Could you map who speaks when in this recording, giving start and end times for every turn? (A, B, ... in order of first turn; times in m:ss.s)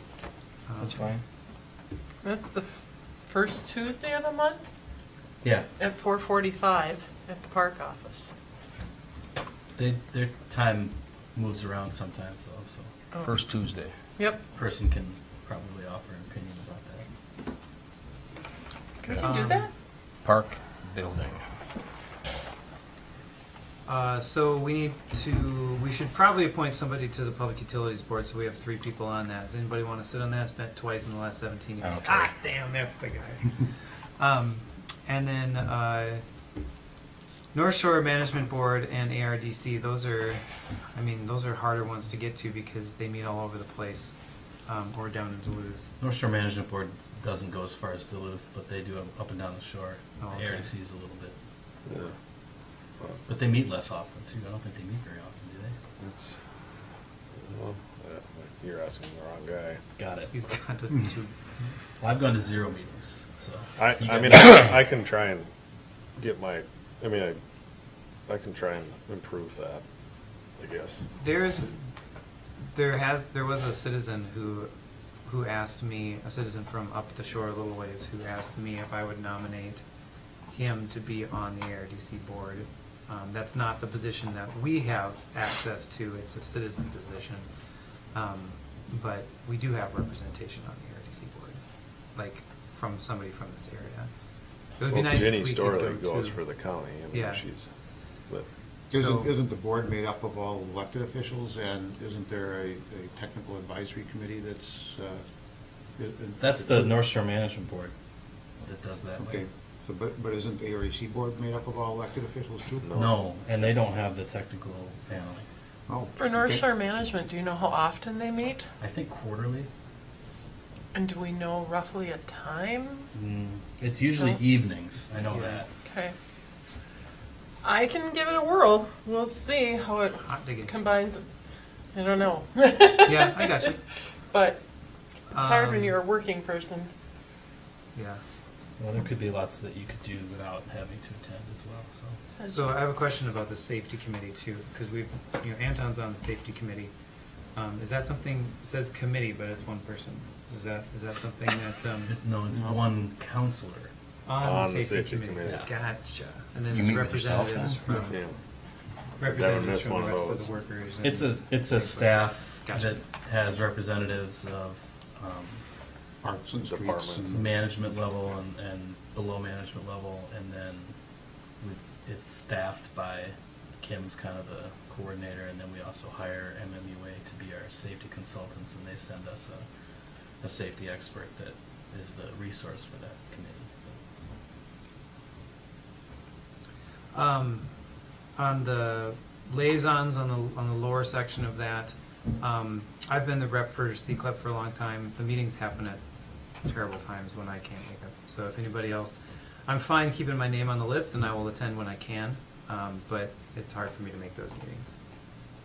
0:00.7-0:01.1 A
0:00.8-0:01.2 B
0:02.2-0:02.7 C
0:03.3-0:04.6 C
0:05.8-0:08.3 C
0:09.8-0:12.9 D
0:13.2-0:13.9 B
0:14.5-0:17.1 D
0:19.0-0:19.7 C
0:19.2-0:19.7 A
0:20.2-0:21.4 B
0:23.8-0:33.6 A
0:31.8-0:32.3 B
0:34.2-0:36.2 A
0:37.5-0:40.4 A
0:40.9-0:44.1 A
0:44.6-0:45.8 A
0:46.0-0:51.3 D
0:50.2-0:50.7 A
0:53.2-0:55.8 D
0:56.0-0:56.3 E
0:57.5-0:59.8 E
1:00.0-1:00.3 D
1:00.3-1:01.3 A
1:02.0-1:04.8 D
1:03.8-1:05.4 E
1:06.2-1:07.4 E
1:08.3-1:09.8 E
1:10.6-1:11.0 E
1:11.2-1:11.8 A
1:12.7-1:14.7 A
1:15.2-1:19.8 A
1:20.5-1:27.4 A
1:28.1-1:31.6 A
1:32.1-1:34.1 A
1:34.8-1:36.4 A
1:34.9-1:37.6 E
1:36.9-1:37.4 A
1:38.9-1:45.2 F
1:38.9-1:39.3 A
1:45.9-1:47.0 F
1:46.4-1:47.9 D
1:48.6-1:49.4 D
1:49.2-1:53.1 F
1:52.9-1:55.4 D
1:55.9-1:56.6 F
1:56.2-1:58.6 C
1:58.8-1:59.7 D
2:00.9-2:03.1 C
2:03.1-2:05.7 D
2:05.1-2:05.6 A
2:05.8-2:06.1 C
2:07.6-2:11.2 C
2:10.2-2:10.7 A
2:11.9-2:13.5 C
2:13.0-2:13.8 A
2:14.3-2:14.6 C
2:15.3-2:16.0 A
2:15.3-2:16.9 C
2:17.9-2:18.2 A
2:18.8-2:22.2 D
2:22.4-2:22.7 C
2:22.5-2:26.9 A
2:27.5-2:32.1 A
2:32.0-2:33.9 D
2:32.5-2:32.8 F
2:34.2-2:38.2 A
2:34.4-2:35.5 E
2:36.7-2:37.8 B
2:38.1-2:38.4 E
2:39.2-2:43.0 A
2:39.2-2:40.5 E
2:41.0-2:45.6 D
2:46.2-2:47.5 F
2:46.8-2:47.2 E
2:47.2-2:50.9 D
2:51.6-2:59.6 D
3:00.3-3:03.9 D
3:07.1-3:07.7 A
3:08.3-3:16.0 A
3:16.6-3:24.9 A